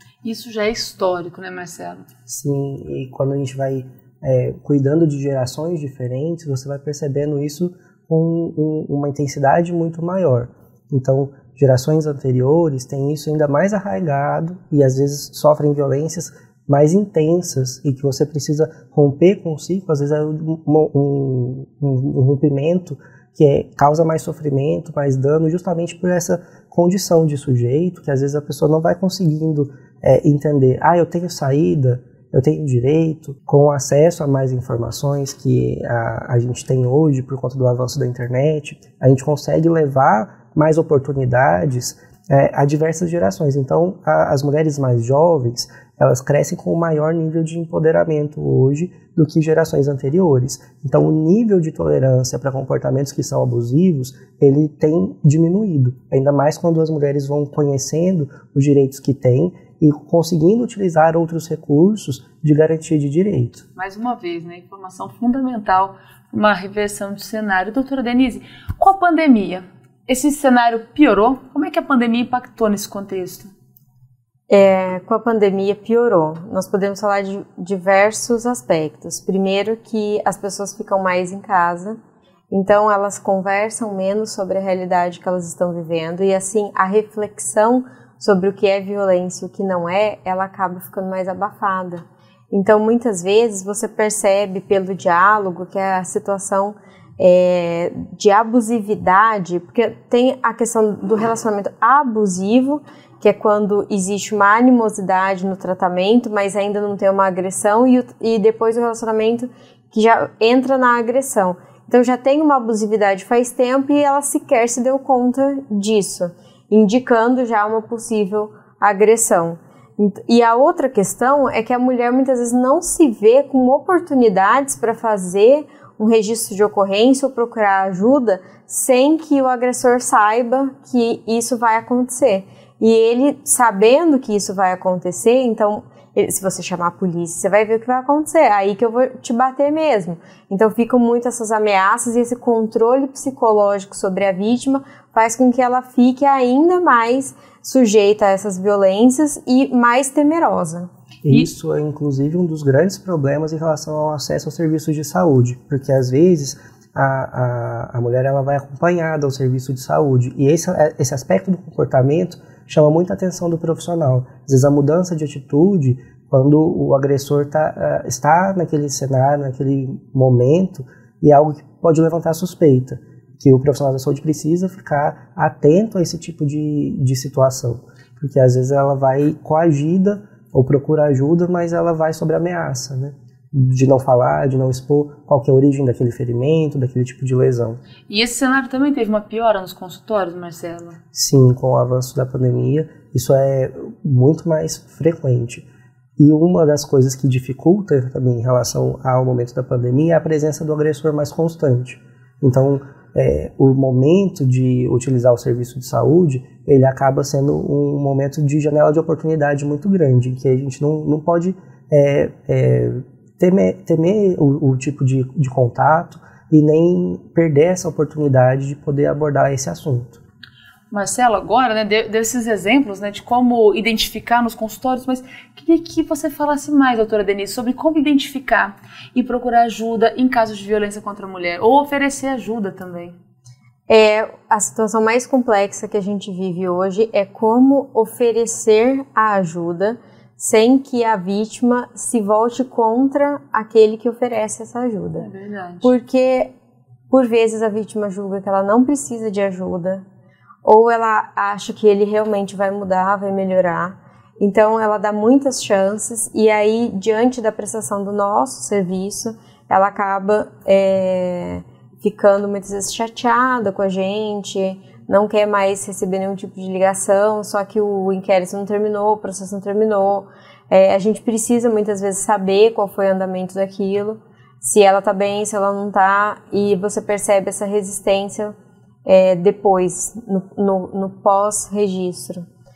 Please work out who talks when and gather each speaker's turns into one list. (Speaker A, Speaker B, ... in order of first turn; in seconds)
Speaker A: 0.2-2.1, 63.8-73.5, 188.1-191.0, 220.9-233.1, 245.2-245.9
Speaker B: 2.3-63.6, 151.2-187.8, 191.1-195.7, 196.2-220.2
Speaker C: 74.5-82.0, 82.5-150.9, 233.9-245.3, 245.8-246.5, 247.1-250.0, 250.6-278.5, 279.1-282.4